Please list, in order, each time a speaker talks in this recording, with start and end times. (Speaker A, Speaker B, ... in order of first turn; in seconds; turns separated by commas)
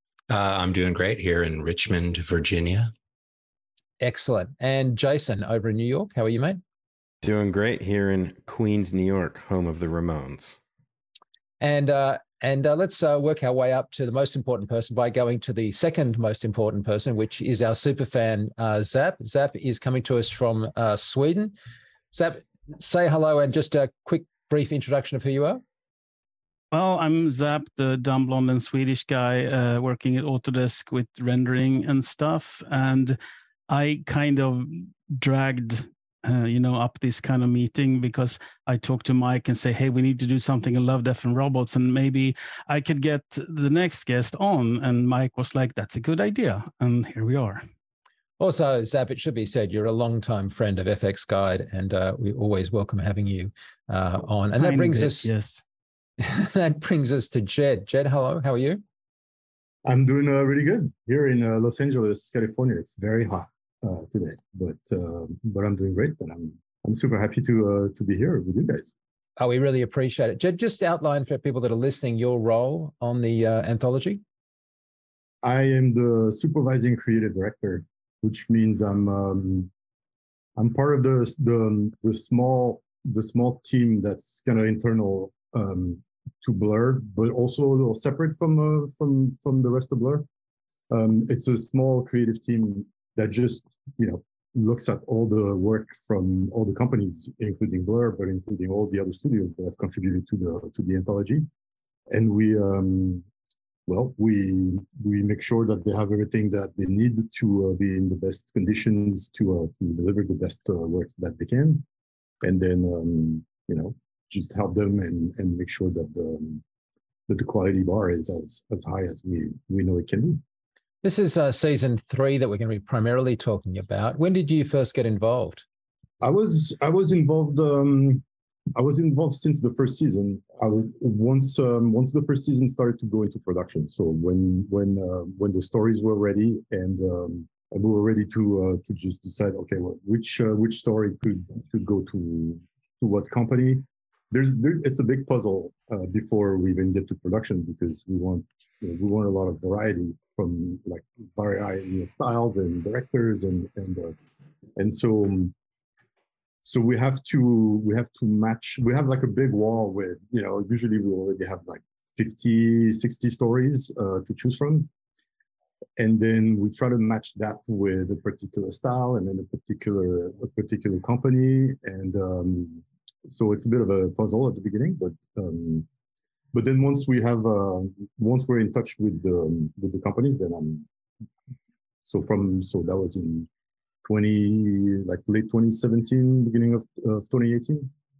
Speaker A: 0.3-2.9, Speaker B: 4.0-6.6, Speaker C: 7.2-10.6, Speaker B: 11.6-21.5, Speaker B: 22.1-25.6, Speaker D: 26.7-33.2, Speaker D: 33.7-47.6, Speaker B: 48.4-55.3, Speaker D: 54.6-55.6, Speaker B: 56.2-58.8, Speaker E: 59.9-68.9, Speaker B: 69.4-74.2, Speaker E: 75.4-79.7, Speaker E: 80.6-90.2, Speaker E: 90.9-101.5, Speaker E: 102.1-103.2, Speaker E: 103.9-111.8, Speaker E: 112.4-116.6, Speaker E: 117.3-120.4, Speaker B: 121.0-125.6, Speaker E: 126.2-128.2, Speaker E: 128.8-154.2, Speaker E: 154.8-155.5, Speaker E: 156.6-164.9, Speaker E: 166.0-175.9, Speaker E: 176.5-180.9, Speaker E: 182.0-183.5, Speaker E: 184.0-187.9